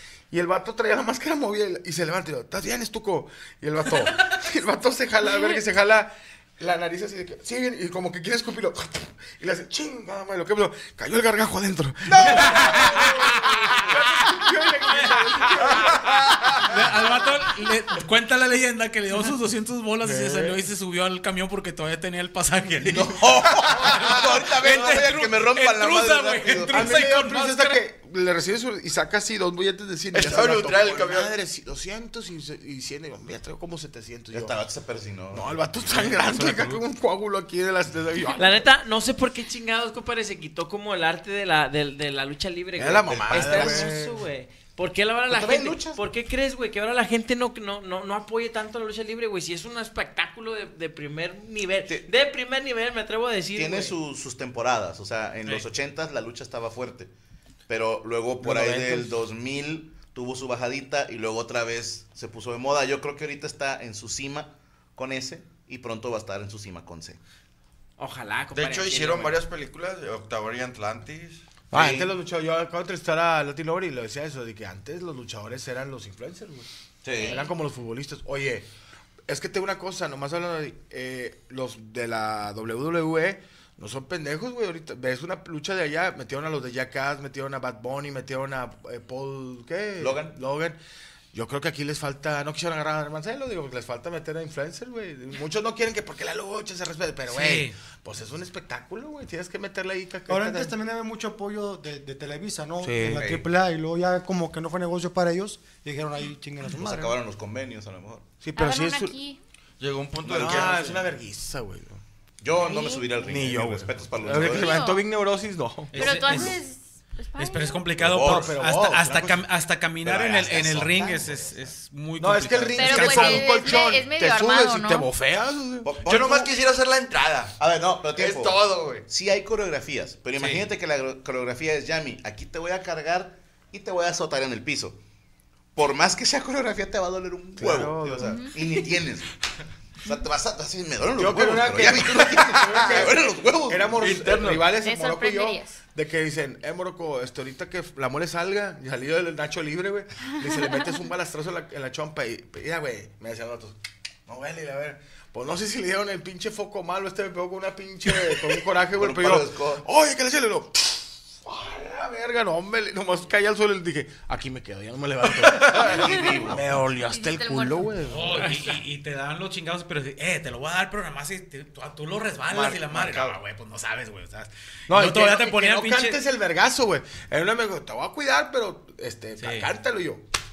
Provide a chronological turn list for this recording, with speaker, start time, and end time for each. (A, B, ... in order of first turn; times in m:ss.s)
0:00.3-0:16.5 A
0:12.1-0:13.5 B
0:12.3-0:13.9 C
0:14.9-0:16.0 C
0:16.6-0:27.8 C
0:20.0-0:20.6 A
0:22.8-0:27.0 B
0:26.7-0:34.6 A
0:30.1-0:31.3 D
0:34.3-0:36.0 B
0:35.3-0:38.7 A
0:35.9-0:36.8 C
0:38.4-0:54.0 E
0:42.8-0:44.2 A
0:43.1-0:43.9 B
0:45.3-0:46.0 B
0:53.6-0:57.1 B
0:57.7-1:07.2 B
0:58.4-0:59.1 A
1:08.0-1:09.4 E
1:08.5-1:12.0 D
1:11.7-1:16.7 A
1:11.8-1:12.0 B
1:17.0-1:17.4 B
1:17.1-1:17.6 F
1:17.3-1:18.7 A
1:19.3-1:30.8 A
1:30.0-1:30.4 B
1:31.3-1:40.7 A
1:37.3-1:37.8 C
1:40.3-1:47.2 G
1:42.8-1:43.4 A
1:46.7-1:48.2 B
1:48.4-1:49.2 A
1:48.6-1:49.4 F
1:49.8-1:51.1 D
1:50.2-1:52.0 A
1:52.4-1:54.8 B
1:52.6-1:53.3 F
1:53.2-1:56.5 A
1:54.4-1:55.1 F
1:55.9-1:56.6 C
1:56.0-1:57.9 F
1:57.4-2:03.7 C
1:58.0-1:58.6 B
1:58.0-1:59.4 A
2:00.0-2:01.7 B
2:02.2-2:05.9 A
2:02.8-2:05.1 F
2:05.8-2:06.5 B
2:06.0-2:07.6 D
2:07.6-2:15.0 B
2:08.2-2:09.1 D
2:10.4-2:10.7 C
2:15.8-2:19.3 B
2:17.6-2:18.4 A
2:18.2-2:18.6 F
2:20.0-2:24.3 B
2:21.2-2:48.7 A
2:23.9-2:24.8 D
2:24.8-2:25.8 F
2:30.4-2:30.8 F
2:38.8-2:39.9 B
2:45.6-2:46.8 B
2:46.0-2:48.1 F
2:48.1-2:56.2 C
2:52.5-2:53.4 D
2:54.9-3:00.2 A
2:59.4-2:59.7 C